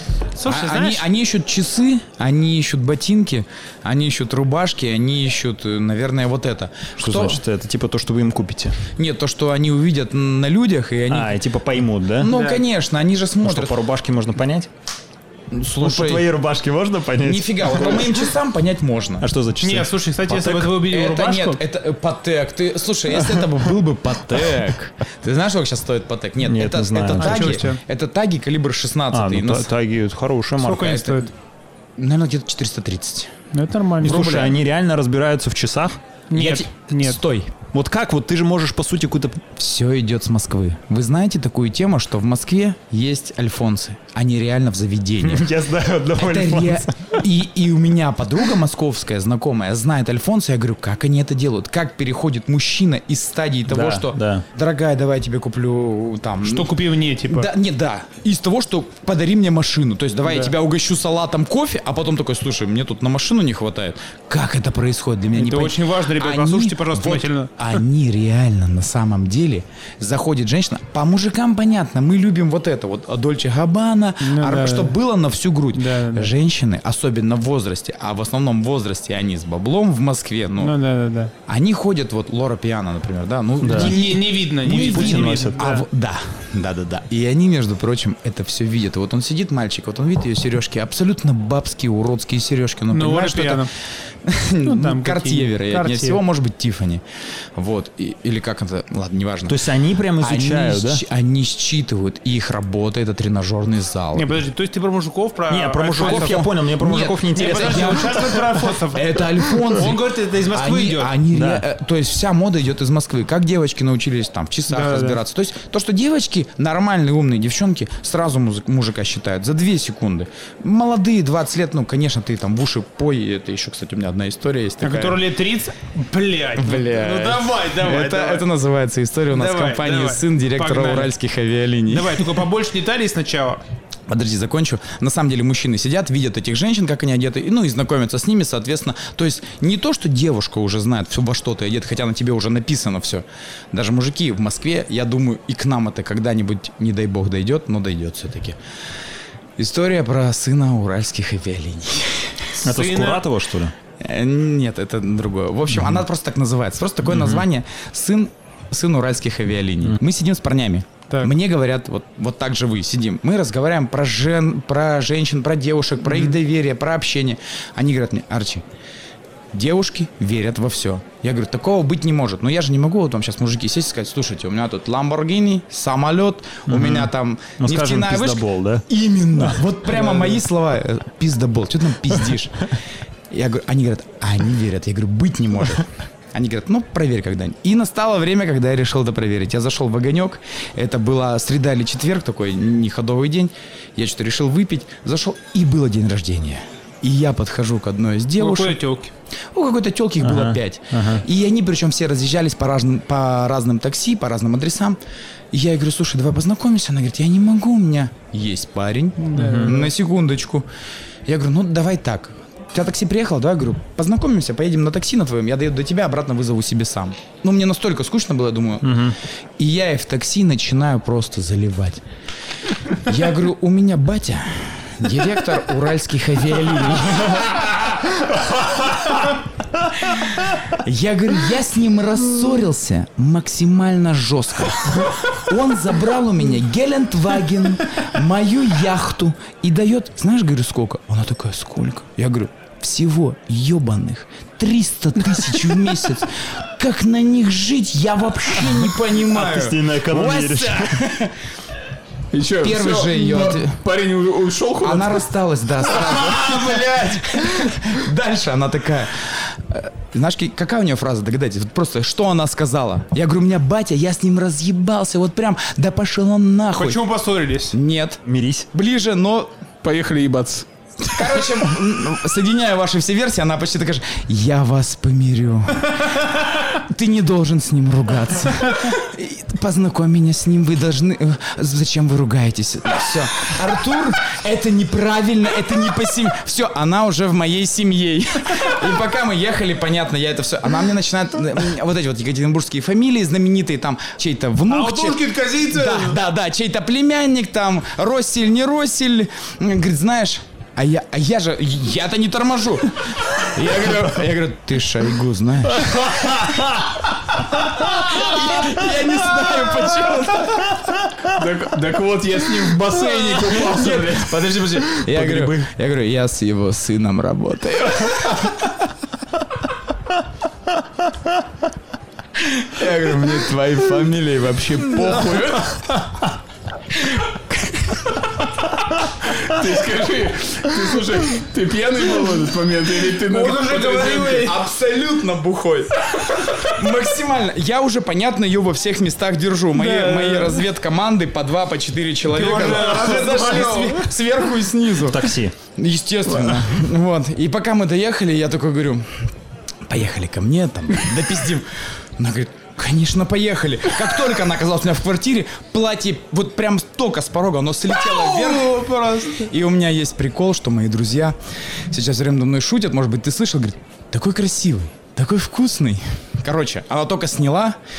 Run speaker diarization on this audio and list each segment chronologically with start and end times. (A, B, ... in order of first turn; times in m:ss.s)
0:00.4-0:01.1 A
0:00.4-0:07.4 B
0:07.0-0:08.8 C
0:09.0-0:11.4 B
0:11.1-0:12.3 C
0:12.1-0:13.8 B
0:12.2-0:12.6 A
0:13.4-0:14.7 C
0:15.5-0:16.3 B
0:15.8-0:18.3 C
0:17.2-0:19.3 B
0:19.2-0:20.8 C
0:19.6-0:21.6 A
0:20.8-0:29.7 B
0:26.4-0:27.7 C
0:27.1-0:27.8 A
0:29.1-0:31.0 C
0:30.6-0:31.3 A
0:30.7-0:31.3 B
0:32.0-0:33.3 B
0:33.5-0:34.3 A
0:34.0-0:34.6 B
0:34.0-0:36.0 C
0:36.3-0:37.2 A
0:36.3-0:37.5 B
0:37.7-0:39.5 C
0:39.6-0:45.5 B
0:45.2-0:47.2 C
0:46.2-0:56.8 B
0:53.7-0:54.4 C
0:56.4-0:57.5 A
0:57.3-1:20.8 B
1:00.3-1:00.5 A
1:05.3-1:07.8 A
1:14.2-1:15.0 A
1:15.7-1:16.3 A
1:20.6-1:21.3 A
1:21.5-1:33.7 B
1:23.6-1:24.0 C
1:23.7-1:25.9 A
1:24.6-1:25.6 C
1:32.9-1:33.7 A
1:34.2-1:37.0 B
1:34.6-1:36.2 A
1:37.6-1:39.6 B
1:39.5-1:41.0 C
1:40.2-1:44.4 B
1:44.1-1:46.5 A
1:45.5-1:48.4 C
1:46.0-2:05.2 B
1:47.3-1:51.2 A
1:51.3-1:51.7 C
1:54.7-1:55.2 A
2:04.8-2:08.5 A
2:06.6-2:12.4 B
2:09.3-2:11.1 A
2:11.9-2:13.6 A
2:14.1-2:28.6 B
2:29.6-2:32.6 B
2:32.6-2:33.3 A
2:32.6-2:33.7 C
2:34.0-2:48.6 B
2:37.1-2:37.4 C
2:46.1-2:46.4 A
2:49.5-3:02.8 B
2:56.7-2:58.9 C
3:00.0-3:00.4 A
3:03.3-3:18.8 B
3:18.4-3:19.1 A
3:19.5-3:25.0 B
3:20.2-3:21.2 C
3:25.5-3:30.7 B
3:29.2-3:29.9 A
3:29.4-3:29.7 C
3:31.3-3:42.0 B
3:38.8-3:39.2 C
3:42.9-3:48.0 B
3:48.4-3:49.1 C
3:50.0-4:11.5 B
4:09.1-4:11.0 C
4:12.3-4:15.2 D
4:12.6-4:13.8 B
4:14.8-4:27.0 B
4:15.9-4:17.2 D
4:26.7-4:27.8 A
4:27.7-4:29.5 B
4:28.2-4:28.7 C
4:29.8-4:31.2 D
4:31.0-5:06.4 B
4:36.2-4:36.6 A
4:54.7-4:56.2 A
5:05.9-5:06.9 C
5:07.5-5:10.9 B
5:11.3-5:15.5 D
5:13.4-5:18.7 B
5:22.4-5:25.8 B
5:26.9-5:28.4 B
5:29.2-5:34.5 D
5:33.3-5:34.6 A
5:33.4-5:49.3 B
5:39.7-5:40.6 A
5:42.3-5:44.1 A
5:45.0-5:45.6 C
5:49.8-6:07.8 B
5:58.1-5:59.4 A